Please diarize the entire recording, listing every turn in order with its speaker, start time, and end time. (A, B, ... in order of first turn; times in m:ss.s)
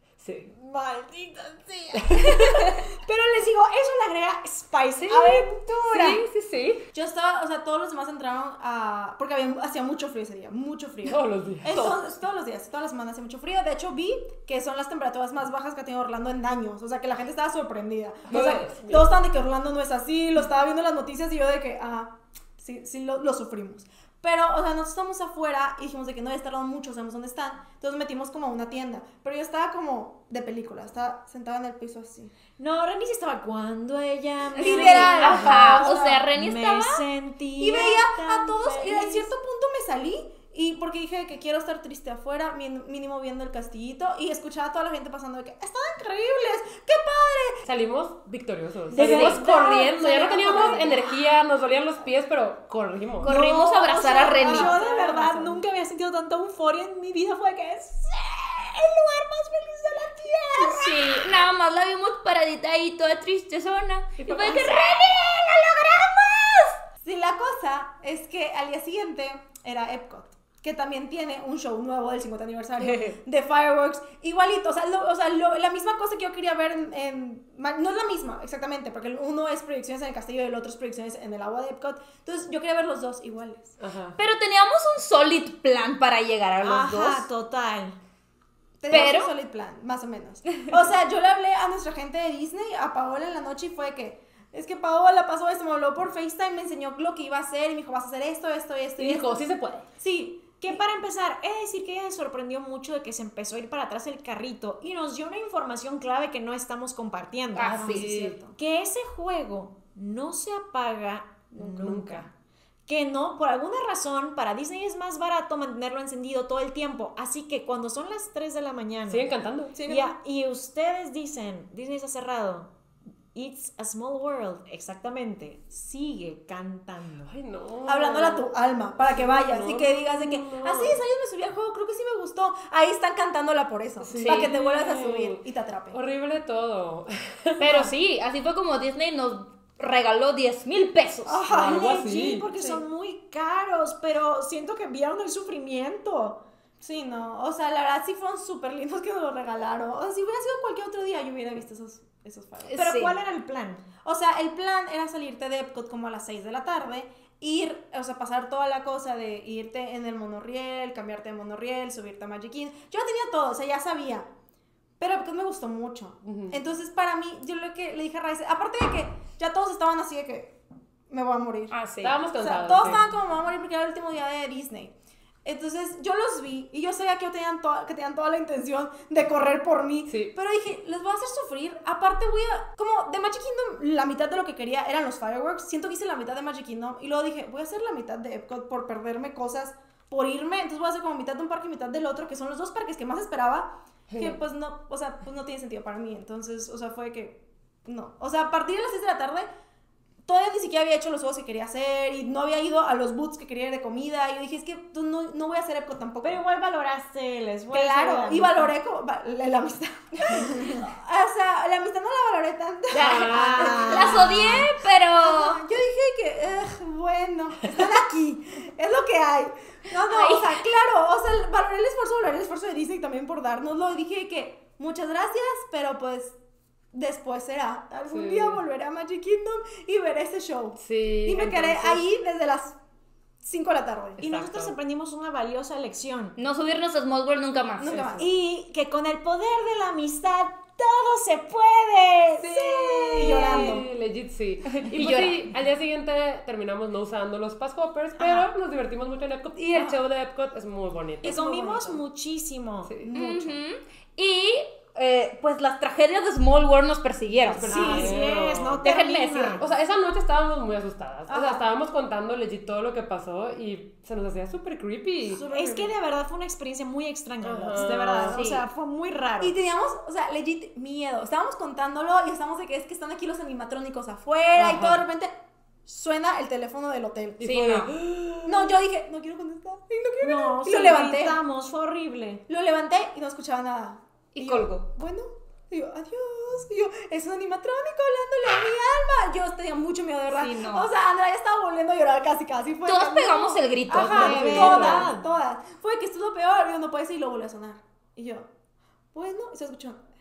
0:00.2-0:00.5 A
0:00.5-0:06.2 B
0:01.9-0:02.7 A
0:02.2-0:02.7 C
0:05.0-0:06.8 A
0:06.9-0:32.3 D
0:11.0-0:11.8 A
0:18.3-0:19.1 A
0:32.6-0:39.3 B
0:34.6-0:36.3 D
0:34.6-0:37.0 C
0:35.2-0:35.6 A
0:37.6-0:47.6 D
0:47.6-0:53.4 A
0:48.9-0:51.1 B
0:48.9-0:51.0 D
0:53.2-0:54.8 C
0:53.2-1:01.3 B
0:54.0-0:55.6 D
1:00.6-1:06.8 C
1:04.2-1:04.8 A
1:07.0-1:23.7 D
1:12.8-1:13.2 A
1:23.8-1:24.2 A
1:24.2-1:27.2 C
1:26.6-1:28.0 B
1:28.8-1:39.4 D
1:28.9-1:29.3 C
1:39.0-1:39.8 A
1:40.0-1:40.7 D
1:40.6-1:47.9 B
1:47.6-1:48.0 C
1:47.6-1:48.4 A
1:47.6-1:48.5 D
1:48.5-1:52.3 B
1:51.6-1:52.3 A
1:52.9-1:59.3 B
1:59.1-1:59.7 A
1:59.7-2:00.1 D
1:59.8-2:02.7 B
2:03.3-2:07.3 B
2:07.2-2:08.5 A
2:07.8-2:16.0 D
2:09.0-2:11.0 A
2:14.0-2:17.8 A
2:14.1-2:14.5 C
2:17.6-2:21.4 C
2:17.6-2:17.9 D
2:21.2-2:22.0 D
2:21.5-2:26.4 B
2:21.5-2:22.8 A
2:26.8-2:32.7 D
2:32.6-2:33.2 C
2:32.7-2:33.8 B
2:34.0-2:44.3 D
2:45.0-2:50.6 D
2:46.2-2:46.6 A
2:51.1-2:51.7 D
2:51.7-2:52.2 C
2:52.0-2:53.0 A
2:52.4-3:19.5 D
3:00.1-3:00.3 A
3:20.2-3:26.4 D
3:26.2-3:28.7 B
3:27.7-3:34.6 D
3:32.9-3:34.3 A
3:33.0-3:35.6 C
3:33.1-3:34.6 B
3:35.2-3:46.4 D
3:40.1-3:40.5 C
3:46.9-3:52.8 D
3:48.1-3:48.6 A
3:50.8-3:52.0 A
3:53.4-3:54.2 D
3:54.2-3:54.7 A
3:54.2-3:56.3 B
3:56.4-3:58.0 C
3:57.8-3:58.3 D
3:57.9-3:58.3 A
3:58.2-4:03.7 B
4:02.4-4:11.4 A
4:03.2-4:03.9 D
4:04.8-4:05.5 C
4:08.2-4:08.5 B
4:11.2-4:12.0 D
4:11.2-4:12.9 B
4:12.8-4:13.1 A
4:13.0-4:13.6 D
4:13.1-4:18.1 C
4:17.5-4:18.9 A
4:17.6-4:19.6 B
4:17.7-4:18.1 D
4:18.8-4:19.6 C
4:19.6-4:25.9 A
4:21.3-4:21.7 D
4:25.3-4:29.6 B
4:27.4-4:28.4 A
4:27.7-4:28.4 D
4:28.3-4:28.6 C
4:29.4-4:35.3 D
4:34.5-4:35.0 A
4:35.8-4:37.7 D
4:37.4-4:38.8 A
4:37.4-4:37.9 C
4:38.4-4:41.4 D
4:40.2-4:42.4 B
4:42.5-4:58.5 D
4:44.3-4:44.8 C
4:50.3-4:50.9 C
4:52.8-4:54.8 C
4:53.9-4:55.1 A
4:53.9-4:55.3 B
4:59.1-5:00.0 D